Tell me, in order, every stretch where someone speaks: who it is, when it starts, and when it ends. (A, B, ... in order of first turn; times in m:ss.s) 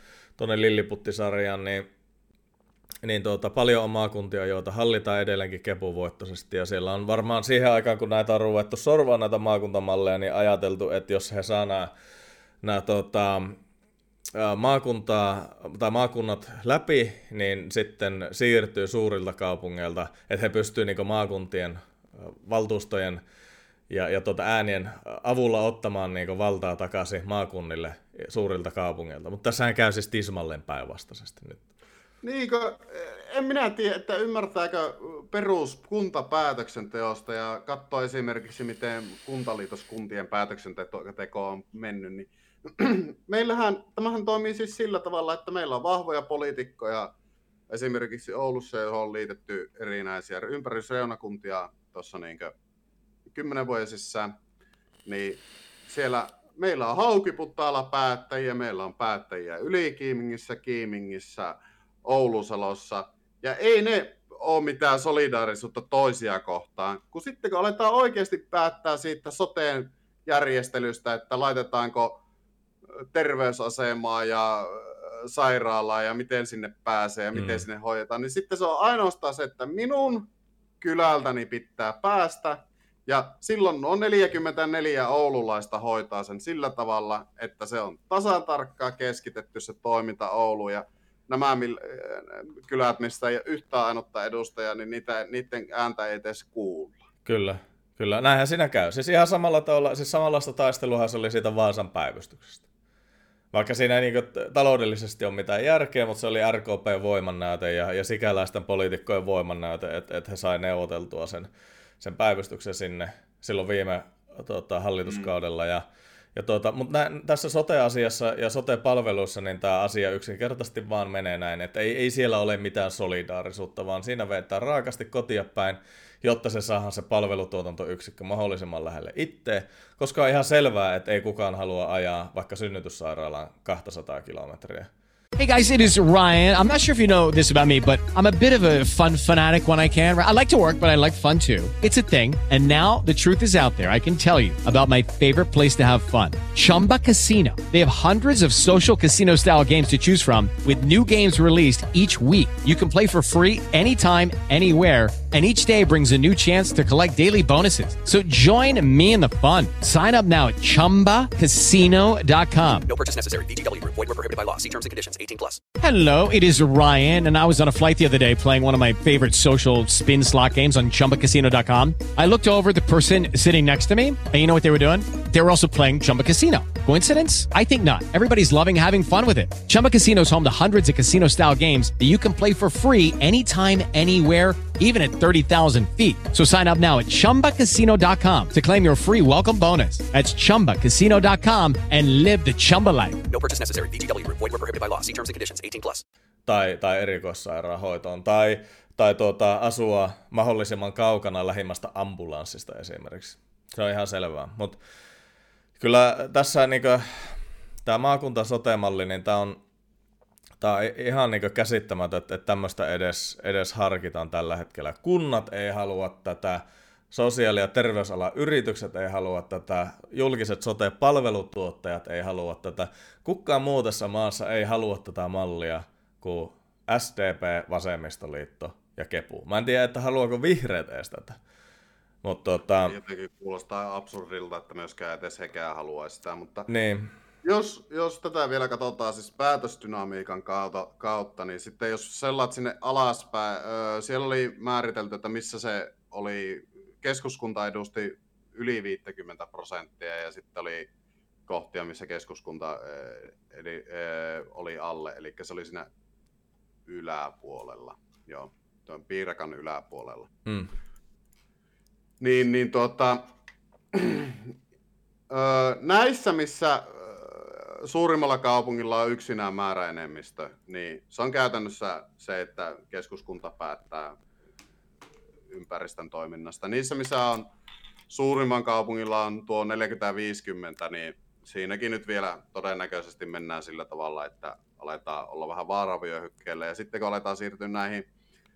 0:00.4-0:01.9 A
0:03.0-0:11.9 A
0:12.6-0:13.6 A
0:14.3-0:23.2 A
0:23.9-0:31.6 A
0:32.2-0:47.1 B
0:47.7-0:52.5 B
0:53.3-0:54.4 B
0:55.1-1:12.2 B
1:13.1-1:20.3 B
1:17.4-1:17.6 A
1:20.8-1:37.0 B
1:37.3-1:42.6 A
1:43.5-1:51.5 A
1:52.0-2:14.9 A
2:15.4-2:42.9 C
2:42.9-2:45.6 D
2:45.8-3:13.3 C
3:13.3-3:16.0 D
3:16.5-3:24.8 A
3:25.8-3:27.3 A
3:27.8-3:29.6 A
3:30.6-3:51.4 A
3:52.2-3:53.0 A
3:52.9-3:56.7 B
3:56.7-3:57.1 A
3:57.4-4:10.9 B
4:11.5-4:15.9 B
4:16.9-4:20.3 B
4:20.5-4:20.7 A
4:22.2-4:23.2 B
4:23.9-4:24.5 B
4:25.3-4:34.2 B
4:35.5-4:37.5 B
4:38.1-4:48.1 B